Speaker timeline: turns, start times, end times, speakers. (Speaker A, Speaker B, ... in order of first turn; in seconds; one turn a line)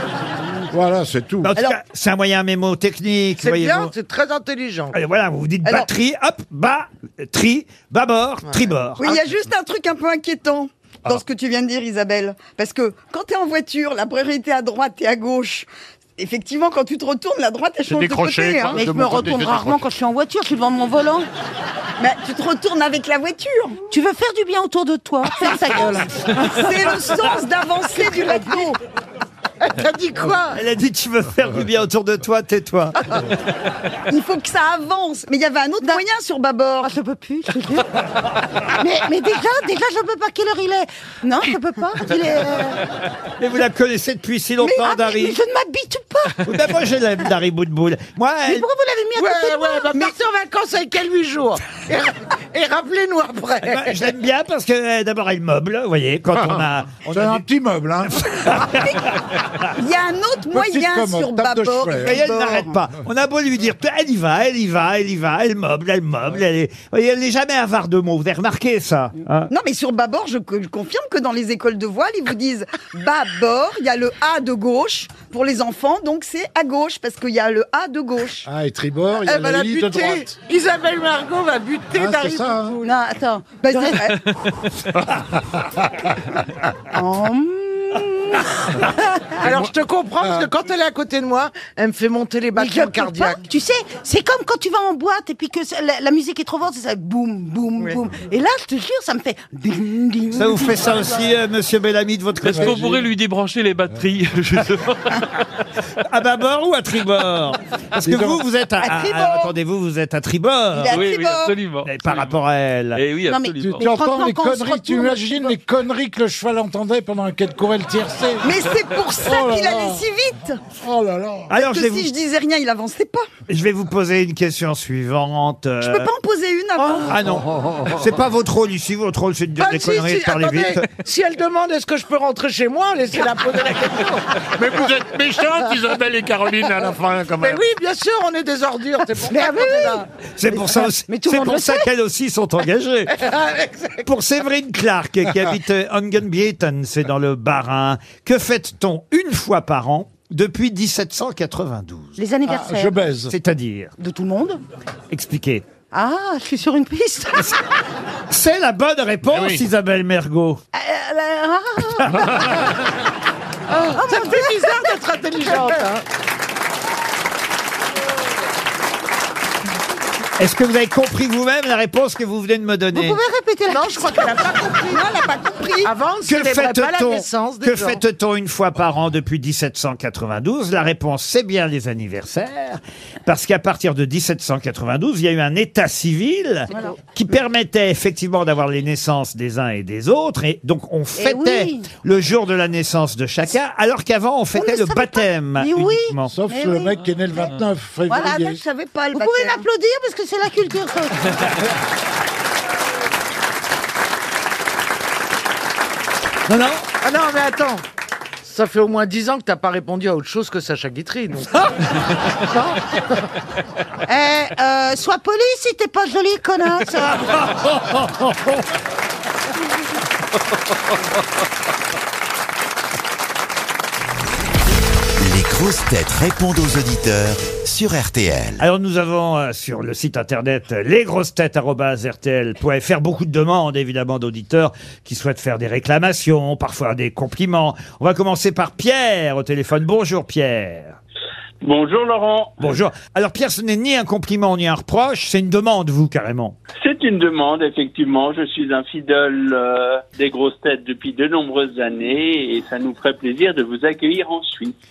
Speaker A: 0.7-1.5
Speaker B: 1.4-3.9
Speaker C: 3.4-5.0
Speaker B: 4.9-9.1
Speaker D: 9.0-18.8
Speaker E: 17.9-19.8
Speaker F: 18.7-21.3
Speaker D: 22.0-23.8
Speaker F: 23.9-27.0
Speaker D: 26.3-28.7
Speaker F: 28.2-28.8
Speaker C: 29.6-30.6
Speaker B: 30.5-33.0
Speaker D: 34.1-36.9
Speaker F: 36.8-37.9
Speaker F: 38.8-42.8
Speaker B: 43.4-45.4
Speaker F: 44.6-46.4
Speaker B: 46.4-48.6
Speaker F: 48.5-50.1
Speaker C: 49.1-54.0
Speaker B: 53.7-57.4
Speaker A: 57.1-58.6
Speaker B: 58.4-59.0
Speaker D: 59.8-62.7
Speaker A: 60.5-62.2
Speaker B: 62.0-69.5
Speaker D: 69.5-78.5
Speaker A: 78.4-80.3
Speaker C: 79.2-82.9
Speaker A: 81.9-82.8
Speaker F: 82.8-84.2
Speaker D: 83.6-84.2
Speaker F: 86.9-89.0
Speaker C: 89.4-93.4
Speaker F: 92.5-101.2
Speaker B: 100.3-103.0
Speaker G: 102.4-105.3
Speaker A: 102.4-103.0
Speaker B: 106.0-111.0
Speaker A: 108.0-108.4
Speaker D: 108.8-109.5
Speaker D: 110.7-111.5
Speaker G: 110.9-112.4
Speaker B: 111.8-113.0
Speaker G: 112.9-113.9
Speaker F: 113.3-115.5
Speaker A: 113.6-118.5
Speaker D: 118.4-120.6
Speaker A: 119.2-120.0
Speaker A: 120.8-121.5
Speaker B: 121.5-122.1
Speaker D: 121.5-123.3
Speaker B: 123.5-126.1
Speaker D: 125.8-127.2
Speaker B: 127.0-130.9
Speaker C: 129.6-134.2
Speaker E: 134.5-137.6
Speaker C: 137.4-140.1
Speaker F: 139.2-141.9
Speaker B: 140.4-143.2
Speaker C: 143.2-144.1
Speaker B: 144.0-152.2
Speaker F: 152.2-153.0
Speaker A: 152.4-153.3
Speaker B: 153.3-153.9
Speaker F: 154.0-154.6
Speaker B: 155.1-155.6
Speaker F: 155.9-157.6
Speaker B: 158.3-160.6
Speaker E: 159.3-159.6
Speaker F: 160.7-162.5
Speaker C: 163.7-166.0
Speaker F: 163.9-164.9
Speaker B: 170.4-173.2
Speaker F: 172.9-174.3
Speaker C: 173.7-175.1
Speaker D: 174.9-175.9
Speaker C: 175.8-178.0
Speaker B: 176.2-196.3
Speaker F: 186.7-186.9
Speaker F: 191.2-191.9
Speaker F: 194.5-197.0
Speaker A: 196.3-198.6
Speaker G: 197.0-197.6
Speaker F: 198.1-198.4
Speaker D: 198.1-199.7
Speaker F: 199.1-201.6
Speaker B: 206.5-206.8
Speaker C: 207.0-207.8
Speaker C: 208.4-211.5
Speaker F: 214.1-217.4
Speaker H: 225.2-228.6
Speaker B: 228.6-241.0
Speaker I: 241.6-242.6
Speaker B: 242.6-246.6
Speaker I: 246.8-254.7